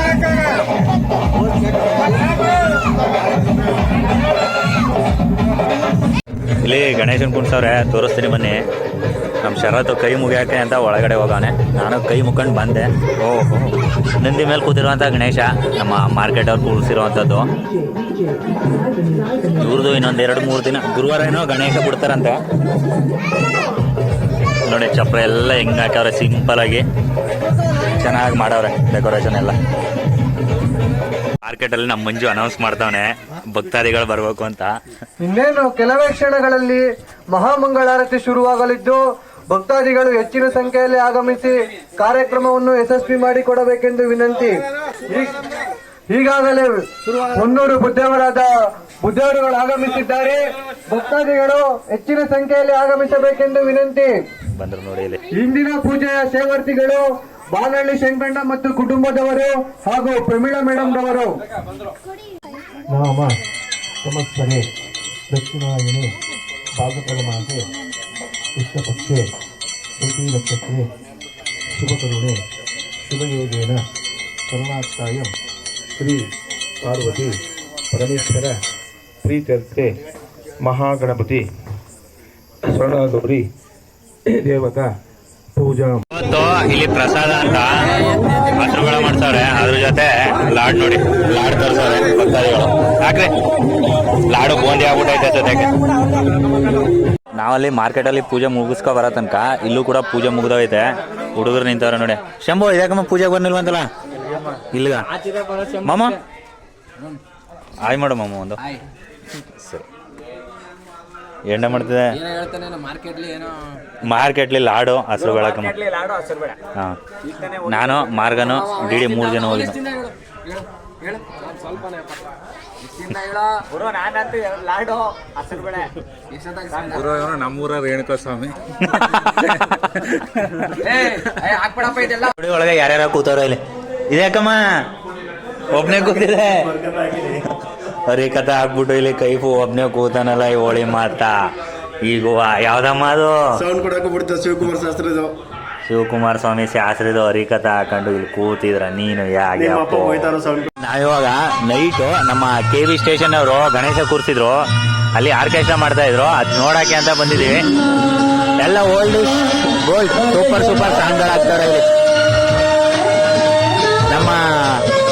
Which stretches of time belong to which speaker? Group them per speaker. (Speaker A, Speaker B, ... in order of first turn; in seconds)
Speaker A: 6.6-8.6, 9.4-17.5, 19.4-22.4, 24.7-26.9, 27.9-29.6, 31.4-34.7, 54.5-55.2, 86.1-93.4, 94.3-95.7, 97.3-103.9, 104.5-105.2, 105.7-106.2, 107.8-108.6, 109.3-109.9, 111.5-112.2, 114.0-115.8, 117.6-119.8, 128.8-130.9, 132.2-134.6, 135.7-141.3, 142.0-143.7, 145.8-157.6, 158.6-161.8, 164.1-164.9
Speaker B: 35.2-45.5, 46.1-54.2, 55.3-61.3
Speaker C: 62.9-63.4, 64.0-64.7, 65.3-66.2, 66.8-67.7, 68.5-69.3, 70.0-70.9, 71.7-72.4, 73.0-73.8, 74.5-75.3, 76.0-77.4, 77.9-78.6, 79.2-80.0, 80.6-81.5, 82.7-83.5, 84.3-84.9, 85.5-86.0
Speaker D: 105.2-106.0, 112.2-113.6, 118.5-123.6, 126.3-129.8, 130.8-132.3
Speaker E: 115.2-116.6, 117.3-118.3, 123.7-126.0
Speaker F: 143.6-145.3, 149.6-150.7